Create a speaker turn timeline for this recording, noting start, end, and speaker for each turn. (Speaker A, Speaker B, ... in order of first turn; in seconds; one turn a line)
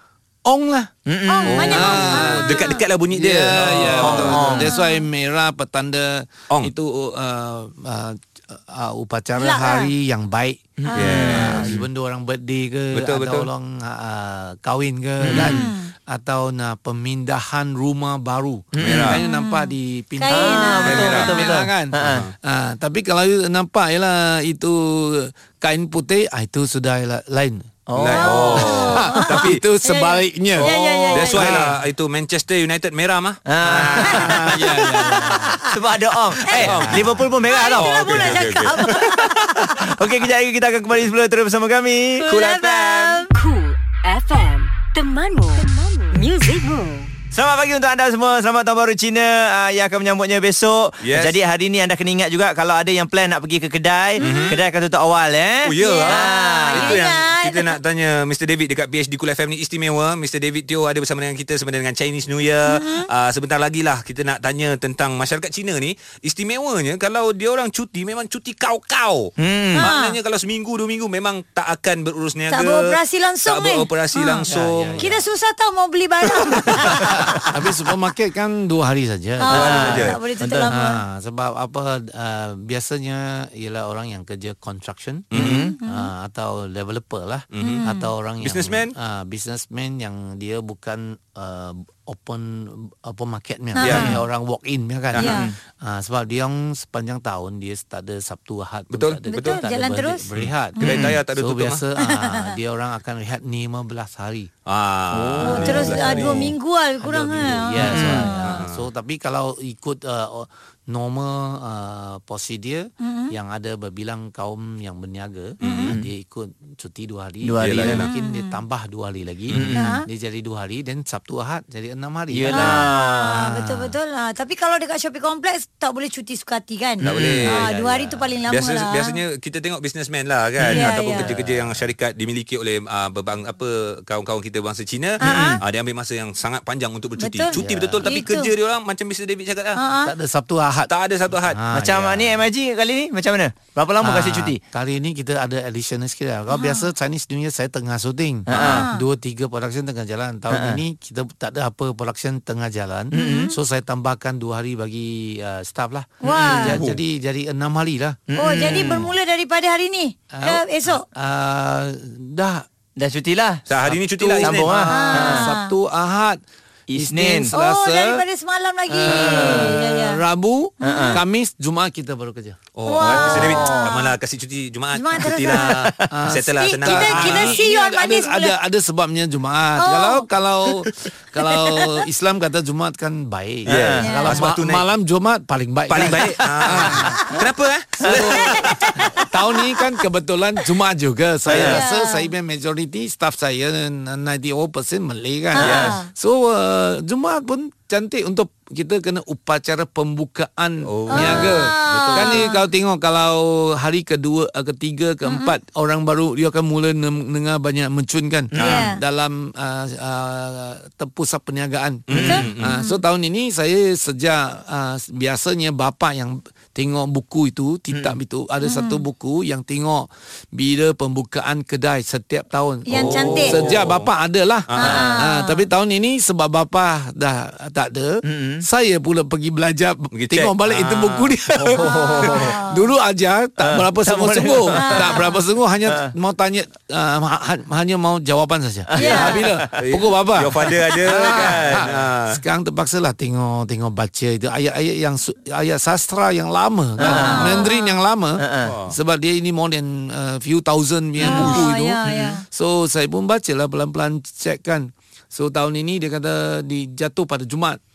Speaker A: 0.5-0.9
Speaker B: 1.1-1.9
Speaker C: 1.3-2.8
Speaker D: 1.5-4.7
Speaker A: 1.6-10.7
Speaker B: 4.0-4.6
Speaker C: 4.7-5.0
Speaker C: 9.4-9.9
Speaker B: 10.8-11.6
Speaker C: 10.9-11.4
Speaker D: 10.9-11.8
Speaker A: 11.3-27.7
Speaker D: 12.9-13.5
Speaker B: 15.2-15.7
Speaker C: 15.4-15.9
Speaker B: 18.7-19.2
Speaker D: 18.8-19.2
Speaker C: 19.2-21.5
Speaker B: 20.3-22.2
Speaker D: 20.8-21.4
Speaker D: 22.0-22.3
Speaker B: 27.9-28.9
Speaker D: 27.9-29.6
Speaker C: 28.1-31.5
Speaker A: 28.4-31.7
Speaker D: 30.6-35.3
Speaker B: 31.3-31.7
Speaker B: 33.5-42.2
Speaker A: 33.6-35.6
Speaker C: 34.0-34.3
Speaker C: 36.4-36.7
Speaker D: 36.6-38.9
Speaker A: 36.6-37.2
Speaker C: 37.4-39.9
Speaker C: 42.2-43.3
Speaker D: 42.3-43.2
Speaker E: 43.3-47.1
Speaker B: 47.3-56.9
Speaker D: 51.0-51.4
Speaker C: 54.2-54.5
Speaker D: 54.2-54.6
Speaker D: 55.6-75.1
Speaker C: 55.8-57.8
Speaker C: 62.7-63.1
Speaker B: 69.4-69.8
Speaker C: 69.8-70.2
Speaker C: 72.5-74.4
Speaker A: 74.5-75.2
Speaker C: 75.0-77.4
Speaker D: 76.3-77.1
Speaker A: 76.7-80.1
Speaker C: 79.4-81.0
Speaker D: 79.5-80.2
Speaker B: 79.6-80.7
Speaker A: 80.7-104.5
Speaker D: 85.3-85.7
Speaker B: 85.3-85.7
Speaker C: 85.4-86.1
Speaker D: 87.5-87.8
Speaker C: 87.6-88.1
Speaker D: 88.4-88.9
Speaker C: 93.7-94.2
Speaker D: 93.8-94.1
Speaker C: 95.2-95.5
Speaker B: 95.2-95.5
Speaker D: 98.9-99.6
Speaker C: 99.3-100.2
Speaker D: 100.3-101.8
Speaker B: 100.8-101.2
Speaker C: 102.0-102.5
Speaker D: 104.7-106.5
Speaker B: 105.1-106.2
Speaker A: 105.4-106.4
Speaker C: 105.5-108.6
Speaker A: 107.0-123.9
Speaker B: 107.8-108.3
Speaker D: 107.9-108.8
Speaker C: 113.0-113.3
Speaker C: 115.6-115.9
Speaker D: 115.6-115.9
Speaker B: 117.4-118.0
Speaker D: 117.6-118.1
Speaker C: 118.0-118.6
Speaker B: 119.5-119.8
Speaker C: 119.7-120.0
Speaker B: 122.3-123.3
Speaker C: 122.5-129.2
Speaker D: 127.0-127.7
Speaker B: 127.0-127.6
Speaker A: 127.4-128.2
Speaker D: 128.5-139.8
Speaker C: 130.7-131.3
Speaker A: 130.7-131.8
Speaker C: 135.2-135.6
Speaker B: 135.2-135.6
Speaker C: 137.2-138.5
Speaker A: 137.5-138.1
Speaker C: 139.8-140.1
Speaker A: 140.0-142.5
Speaker D: 140.9-141.6
Speaker B: 141.7-144.6
Speaker A: 144.0-159.0
Speaker C: 146.5-146.9
Speaker B: 148.5-148.8
Speaker C: 148.5-149.0
Speaker B: 150.5-150.8
Speaker B: 153.1-153.5
Speaker C: 153.1-153.6
Speaker C: 156.2-156.8
Speaker D: 156.5-157.0
Speaker B: 158.3-159.1
Speaker C: 158.3-161.0
Speaker A: 160.3-162.7
Speaker B: 163.0-163.6
Speaker D: 163.7-164.8
Speaker A: 163.8-166.4
Speaker B: 164.4-165.4
Speaker C: 164.9-165.7
Speaker B: 166.9-167.5
Speaker A: 166.9-168.2
Speaker C: 167.5-170.2
Speaker A: 168.9-173.6
Speaker B: 169.0-169.7
Speaker C: 170.8-171.2
Speaker B: 170.8-171.2
Speaker D: 172.7-177.6
Speaker C: 172.9-174.1
Speaker C: 174.9-175.8
Speaker B: 175.6-176.1
Speaker A: 176.0-187.4
Speaker C: 176.6-178.5
Speaker C: 179.8-180.2
Speaker C: 181.4-181.9
Speaker B: 183.7-184.0
Speaker D: 183.7-184.8
Speaker C: 184.0-184.4
Speaker D: 185.9-189.1
Speaker B: 186.0-187.0
Speaker A: 188.0-257.8
Speaker B: 188.0-188.4
Speaker C: 188.6-189.7
Speaker B: 191.5-191.8
Speaker C: 191.6-192.3
Speaker C: 195.5-196.1
Speaker D: 195.6-195.9
Speaker D: 200.8-202.5
Speaker C: 201.1-202.6
Speaker C: 205.2-205.5
Speaker D: 208.6-208.9
Speaker C: 208.6-209.0
Speaker D: 212.1-212.7
Speaker B: 212.1-212.4
Speaker C: 212.3-213.0
Speaker C: 218.6-219.0
Speaker C: 222.9-223.6
Speaker D: 222.9-224.1
Speaker D: 224.7-225.0
Speaker C: 224.8-225.6
Speaker B: 224.8-225.2
Speaker B: 228.2-228.6
Speaker D: 230.1-232.4
Speaker C: 231.8-232.8
Speaker B: 232.1-232.5
Speaker B: 233.6-235.3
Speaker C: 234.7-235.4
Speaker C: 239.0-239.4
Speaker B: 239.0-239.7
Speaker D: 239.7-242.4
Speaker B: 247.0-247.6
Speaker C: 247.0-247.9
Speaker B: 248.4-248.7
Speaker D: 248.6-248.9
Speaker D: 251.2-252.3
Speaker C: 251.2-252.4